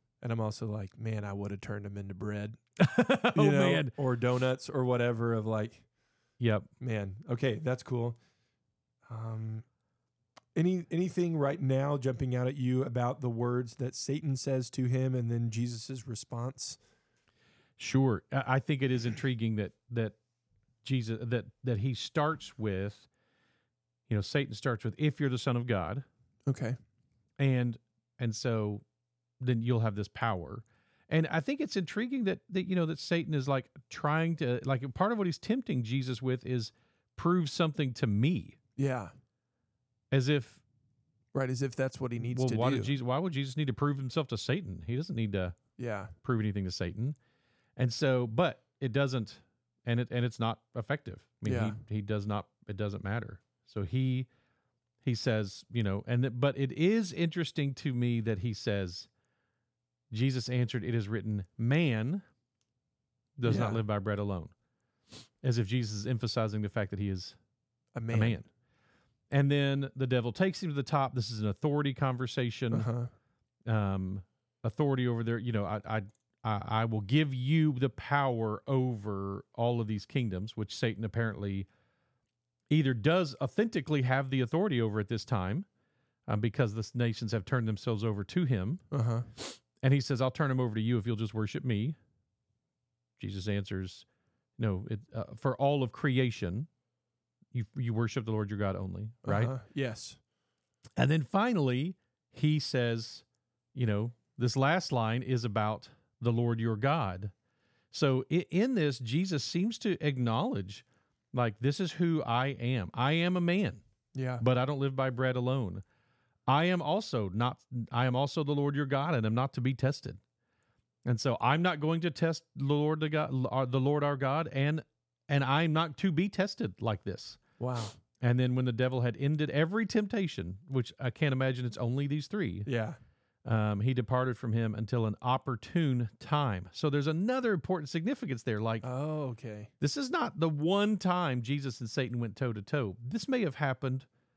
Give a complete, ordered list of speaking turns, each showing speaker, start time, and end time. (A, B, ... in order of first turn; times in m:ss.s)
0:00.2-0:02.6 A
0:02.8-0:03.9 B
0:03.3-0:05.8 A
0:06.4-0:06.7 B
0:06.8-0:08.2 A
0:09.0-0:09.6 A
0:10.5-0:16.8 A
0:17.8-0:20.2 B
0:20.8-0:23.1 B
0:24.1-0:26.0 B
0:26.5-0:26.8 A
0:27.4-0:28.8 B
0:29.4-0:38.6 B
0:38.8-0:39.1 A
0:40.1-0:40.6 B
0:41.3-0:42.9 A
0:42.2-0:45.6 B
0:45.8-0:46.1 A
0:46.2-0:47.2 B
0:47.8-0:54.3 B
0:51.4-0:51.8 A
0:55.0-0:59.1 B
1:00.1-1:02.2 B
1:03.4-1:04.5 B
1:03.4-1:03.8 A
1:05.4-1:07.4 B
1:07.9-1:08.4 A
1:08.1-1:08.5 B
1:09.3-1:12.9 B
1:12.7-1:13.1 A
1:13.7-1:21.7 B
1:22.7-1:25.6 B
1:26.3-1:28.8 B
1:28.9-1:29.3 A
1:29.4-1:32.0 B
1:33.2-1:34.0 B
1:34.6-1:36.7 B
1:37.5-1:39.6 B
1:39.2-1:40.2 A
1:41.0-1:47.3 B
1:47.9-1:53.8 B
1:54.1-1:54.4 A
1:54.4-1:55.8 B
1:56.5-2:00.2 B
2:01.0-2:07.4 B
2:07.6-2:08.0 A
2:08.2-2:12.7 B
2:12.6-2:13.0 A
2:13.4-2:18.9 B
2:18.8-2:19.7 A
2:19.8-2:24.0 B